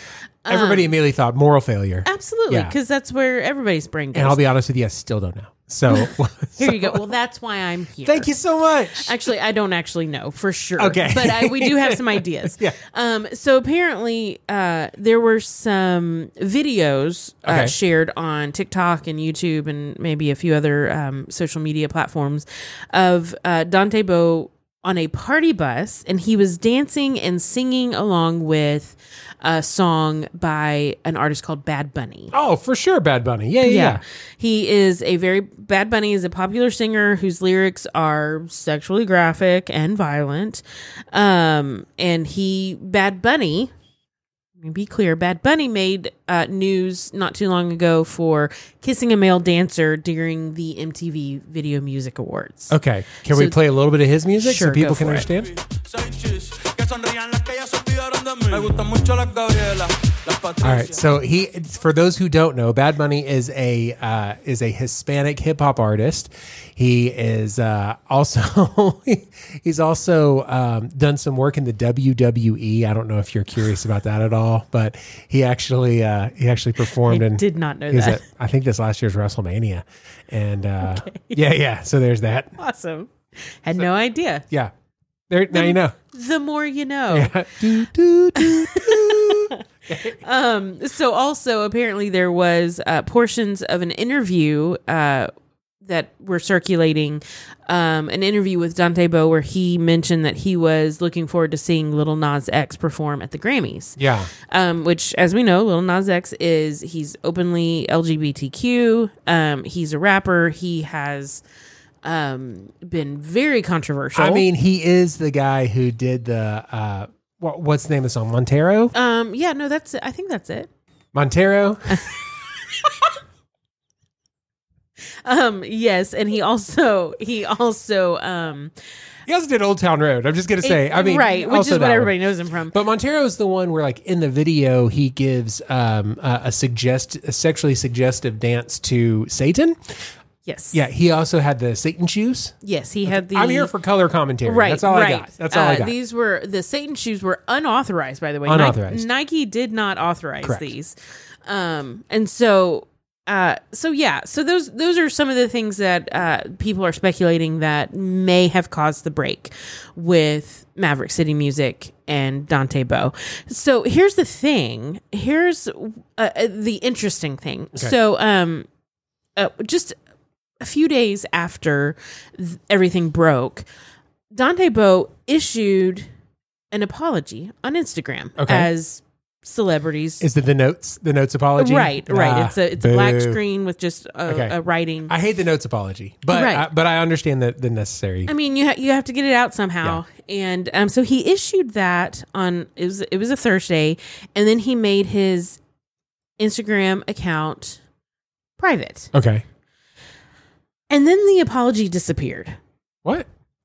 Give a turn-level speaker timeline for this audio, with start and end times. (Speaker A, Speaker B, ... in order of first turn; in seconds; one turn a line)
Speaker A: 0.5-0.9
Speaker B: 0.5-2.8
Speaker A: 2.0-4.4
Speaker B: 4.1-7.1
Speaker A: 5.9-8.3
Speaker B: 8.0-9.2
Speaker A: 8.9-32.3
Speaker B: 10.8-12.8
Speaker B: 17.4-17.8
Speaker B: 32.3-34.0
Speaker A: 33.6-43.7
Speaker A: 44.6-53.6
Speaker B: 52.7-55.5
Speaker A: 54.4-55.3
Speaker C: 55.3-60.9
Speaker B: 60.6-82.5
Speaker A: 77.1-78.2
Speaker A: 80.8-81.4
Speaker A: 82.6-84.4
Speaker B: 85.3-86.0
Speaker A: 85.5-87.3
Speaker B: 87.1-90.2
Speaker A: 88.4-89.6
Speaker A: 90.2-95.3
Speaker A: 95.8-104.0
Speaker B: 104.0-104.3
Speaker A: 104.5-111.4
Speaker A: 112.0-114.5
Speaker B: 114.2-118.9
Speaker A: 118.9-120.7
Speaker B: 121.1-122.0
Speaker A: 125.2-128.7
Speaker B: 129.3-132.2
Speaker A: 130.6-132.8
Speaker B: 132.7-139.9
Speaker A: 140.4-140.8
Speaker B: 140.7-142.5
Speaker A: 142.6-143.7
Speaker B: 143.1-145.9
Speaker A: 144.4-168.7
Speaker B: 148.5-149.1
Speaker B: 150.4-150.7
Speaker A: 169.4-170.0
Speaker A: 170.6-173.7
Speaker A: 174.3-176.1
Speaker A: 176.7-180.2
Speaker B: 178.4-178.7
Speaker B: 180.2-183.4
Speaker A: 181.6-185.1
Speaker B: 184.3-184.6
Speaker B: 185.1-188.3
Speaker A: 186.3-186.7
Speaker A: 188.3-195.6
Speaker A: 196.4-197.8
Speaker A: 198.6-199.1
Speaker B: 199.1-199.4
Speaker A: 200.9-202.6